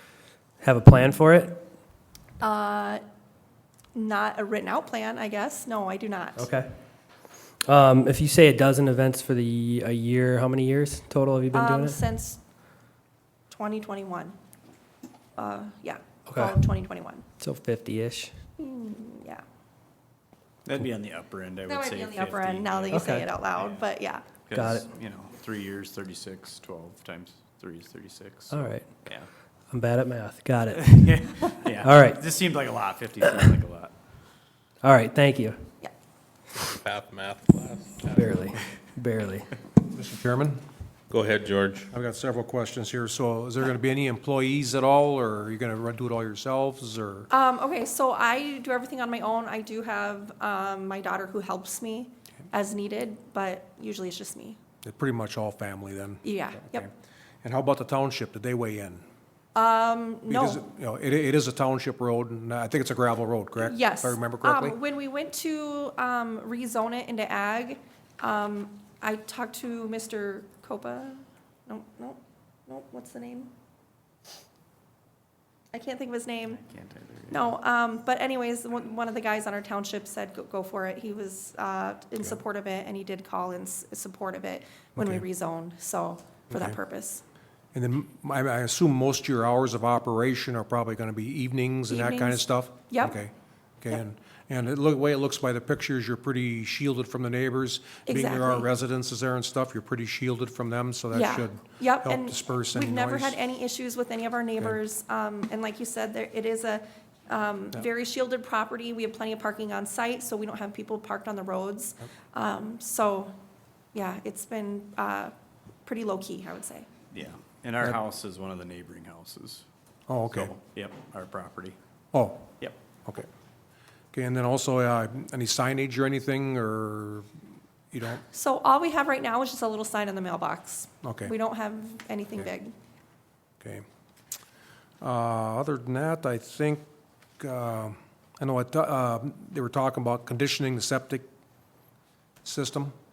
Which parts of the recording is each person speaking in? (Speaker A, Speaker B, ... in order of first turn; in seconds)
Speaker A: 0.6-1.7, 6.4-6.7, 7.7-12.1, 16.3-16.6, 17.4-18.4, 22.9-23.3, 24.5-24.9, 28.5-29.1, 29.7-32.2, 34.8-35.7, 38.1-39.5
Speaker B: 2.4-3.0, 3.9-6.5, 11.5-12.4, 13.5-14.4, 15.4-17.3, 18.6-19.4, 21.7-24.3, 47.3-54.6, 56.2-56.9, 59.5-60.6, 63.6-73.5, 75.7-76.6, 77.3-87.2, 91.9-93.2, 98.1-98.7, 101.1-113.3, 113.9-115.3, 115.8-116.9, 128.3-132.7
Speaker C: 20.6-23.9, 24.4-29.3, 30.8-34.0, 76.5-77.6, 117.1-119.7, 120.3-121.8
Speaker D: 36.5-38.3, 41.1-41.9
Speaker E: 39.9-40.6, 41.9-47.3, 54.8-56.9, 57.4-59.0, 60.3-64.8, 85.0-85.3, 86.5-86.8, 87.7-103.4, 120.1-120.5, 122.1-122.5, 124.1-127.3, 127.9-128.2, 131.0-131.3, 135.0-136.8, 137.4-141.3, 142.4-142.9